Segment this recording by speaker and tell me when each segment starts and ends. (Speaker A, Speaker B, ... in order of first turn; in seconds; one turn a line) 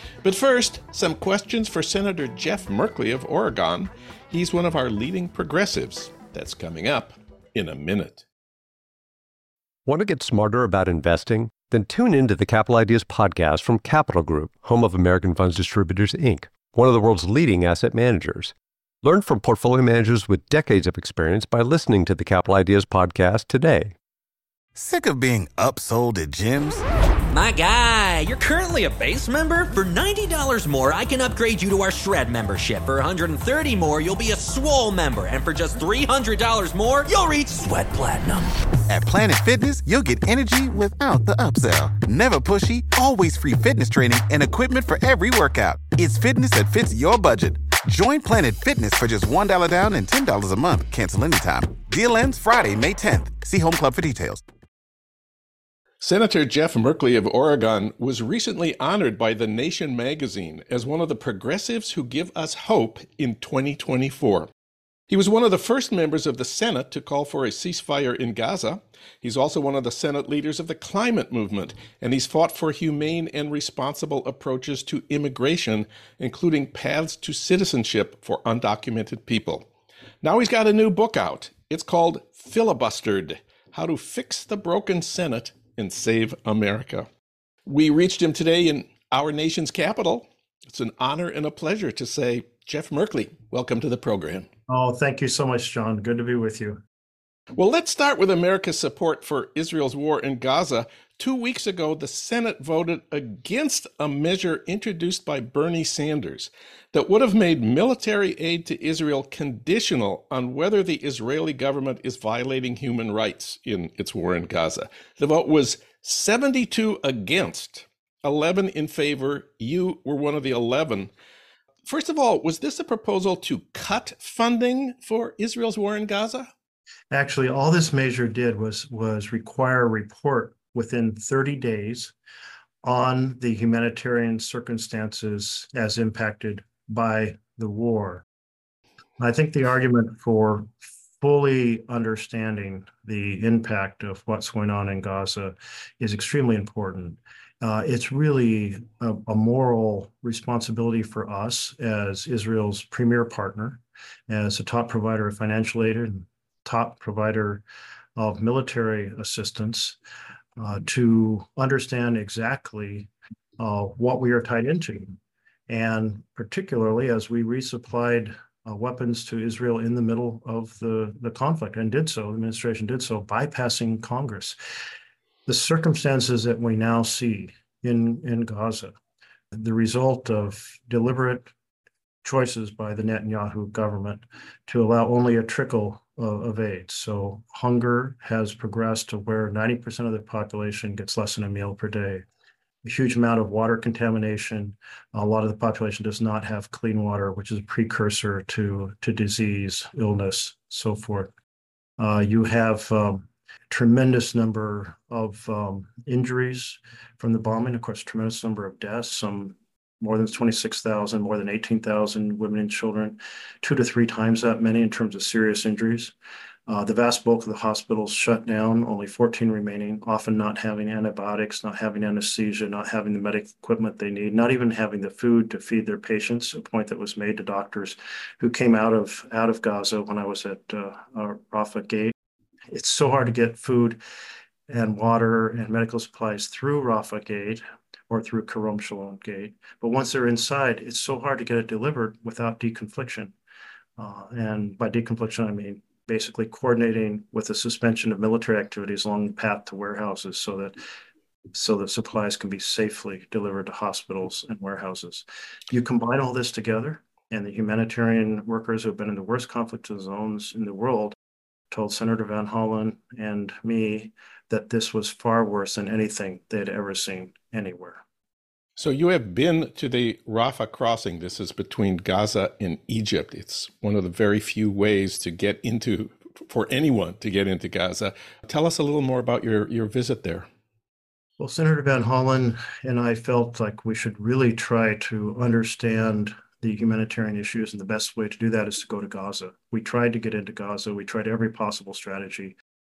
Speaker A: 0.2-8.2
Speaker B: 9.8-23.9
Speaker C: 24.8-26.8
Speaker D: 27.3-38.5
Speaker C: 38.9-54.4
Speaker A: 56.0-64.5
Speaker A: 65.1-79.7
Speaker A: 80.2-87.1
Speaker A: 87.7-94.5
Speaker E: 94.7-96.8
Speaker A: 97.5-121.1
Speaker A: 121.8-126.5
Speaker E: 127.1-132.1
Speaker E: 132.8-138.2
Speaker E: 139.2-157.6
Speaker E: 158.2-160.0
Speaker E: 160.6-165.2
Speaker E: 165.7-174.6
Speaker E: 175.5-178.9
Speaker E: 179.5-181.5
Speaker E: 182.2-192.2
Speaker E: 192.8-201.3
Speaker E: 202.0-216.1
Speaker E: 216.7-232.1
Speaker E: 232.7-234.0
Speaker E: 234.7-243.3
Speaker E: 244.0-250.8
Speaker E: 251.5-261.1
Speaker E: 261.7-268.0
Speaker A: 268.8-280.5
Speaker E: 281.4-292.5